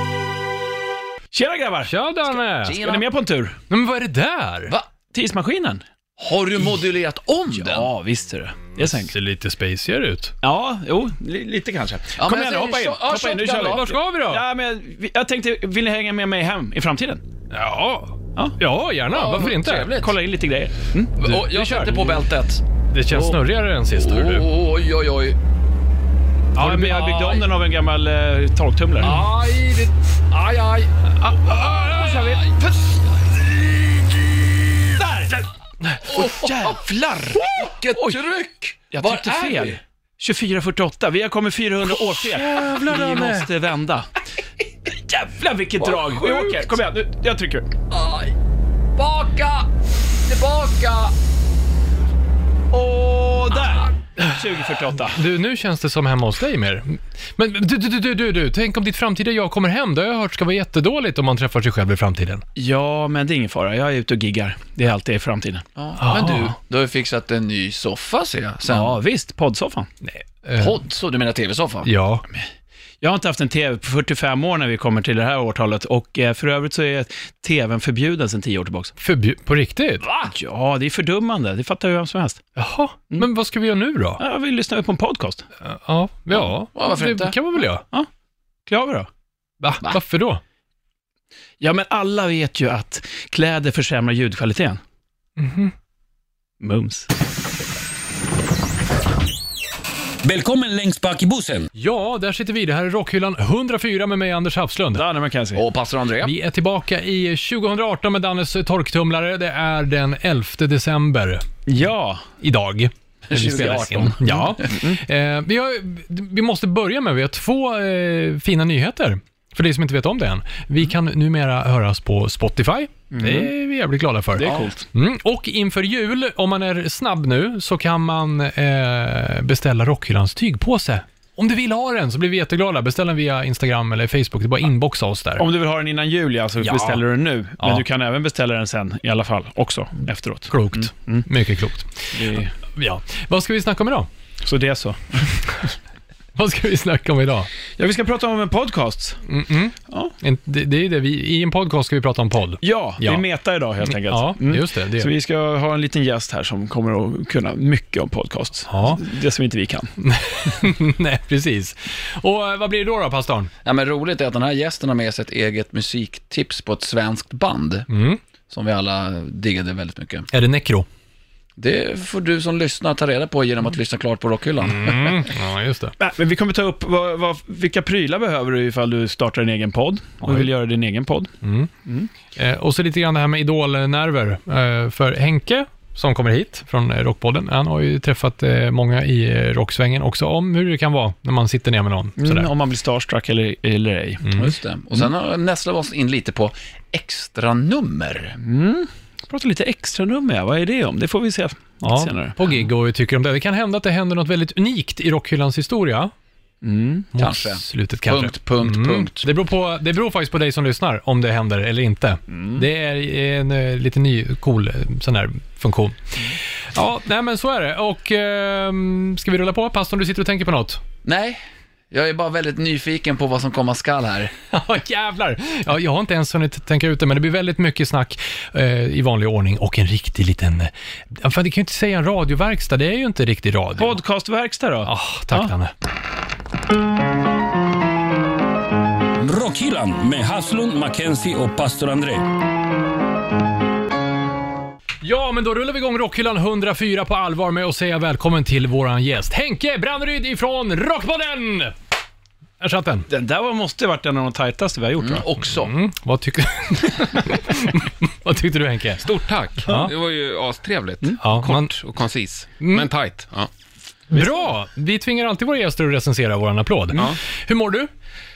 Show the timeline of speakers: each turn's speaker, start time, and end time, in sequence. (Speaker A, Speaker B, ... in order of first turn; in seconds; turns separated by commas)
Speaker A: 1.3-1.9, Speaker B: 1.9-2.8, Speaker C: 2.6-3.1, Speaker A: 2.8-3.6, Speaker B: 3.7-4.7, Speaker A: 5.1-5.8, Speaker C: 6.2-7.9, Speaker A: 7.5-9.1, Speaker B: 8.8-10.3, Speaker A: 10.4-17.2, Speaker C: 12.2-13.9, Speaker B: 13.6-14.4, Speaker B: 17.5-19.9, Speaker C: 19.1-20.1, Speaker A: 19.9-21.1, Speaker C: 21.2-23.4, Speaker B: 21.2-22.2, Speaker B: 22.9-24.5, Speaker C: 23.9-25.4, Speaker A: 26.5-29.2, Speaker B: 26.6-27.4, Speaker C: 29.0-30.9, Speaker A: 31.2-32.5, Speaker C: 31.5-35.0, Speaker A: 35.0-35.4, Speaker A: 35.9-38.2, Speaker C: 36.1-36.8, Speaker C: 37.4-39.8, Speaker A: 38.9-44.2, Speaker B: 42.0-43.5, Speaker A: 44.9-47.7, Speaker C: 45.8-46.8, Speaker C: 47.9-48.4, Speaker C: 48.9-49.7, Speaker C: 50.2-51.1, Speaker C: 52.7-53.9, Speaker A: 53.5-55.2, Speaker B: 55.0-62.4, Speaker A: 62.5-65.6, Speaker C: 65.8-69.0, Speaker B: 66.0-66.5, Speaker A: 68.7-69.9, Speaker B: 70.0-70.8, Speaker C: 70.5-71.9, Speaker B: 71.8-72.2, Speaker A: 73.0-78.9, Speaker B: 79.0-80.0, Speaker A: 80.2-82.4, Speaker B: 82.5-84.2, Speaker A: 84.2-85.5, Speaker B: 85.6-87.8, Speaker C: 86.7-87.4, Speaker A: 88.7-89.1, Speaker B: 89.6-90.4, Speaker A: 91.6-94.8, Speaker B: 95.4-95.7, Speaker A: 96.6-97.1, Speaker D: 100.2-101.7, Speaker B: 101.8-105.0, Speaker A: 104.9-105.6, Speaker C: 105.5-106.3, Speaker B: 106.2-111.4, Speaker A: 111.7-112.2, Speaker B: 112.4-135.4, Speaker C: 113.3-114.7, Speaker A: 113.3-114.1, Speaker A: 114.7-115.0, Speaker A: 123.1-123.5, Speaker A: 124.3-124.8, Speaker C: 124.4-124.7, Speaker A: 135.4-141.3, Speaker B: 136.6-137.0, Speaker B: 137.6-137.8, Speaker B: 140.5-144.1, Speaker A: 142.1-142.5, Speaker A: 144.4-145.2, Speaker B: 146.3-147.5, Speaker A: 147.8-149.2, Speaker B: 149.3-153.2, Speaker A: 152.6-159.9, Speaker B: 153.9-155.1, Speaker B: 158.7-159.0, Speaker B: 160.0-163.5, Speaker C: 163.6-167.9, Speaker B: 167.9-168.2, Speaker C: 168.5-170.3, Speaker B: 170.3-170.9, Speaker C: 171.6-175.3, Speaker B: 174.6-175.9, Speaker A: 176.0-181.3, Speaker B: 180.2-180.5, Speaker B: 181.4-181.7, Speaker B: 182.3-192.5, Speaker A: 192.2-194.3, Speaker B: 194.2-194.5, Speaker C: 194.3-198.4, Speaker A: 198.4-202.4, Speaker B: 201.8-206.1, Speaker A: 206.6-207.1, Speaker B: 207.1-220.8, Speaker C: 207.1-209.3, Speaker A: 212.3-212.6, Speaker C: 221.0-221.4, Speaker C: 221.9-224.3, Speaker B: 224.5-234.0, Speaker A: 233.8-235.5, Speaker B: 234.8-235.7, Speaker D: 239.2-242.3, Speaker B: 245.0-251.7, Speaker B: 252.6-253.1, Speaker A: 253.1-255.2, Speaker C: 255.0-255.8, Speaker B: 255.5-259.0, Speaker E: 259.0-263.5, Speaker B: 259.6-259.9, Speaker B: 261.2-261.7, Speaker B: 262.6-262.9, Speaker B: 264.1-267.9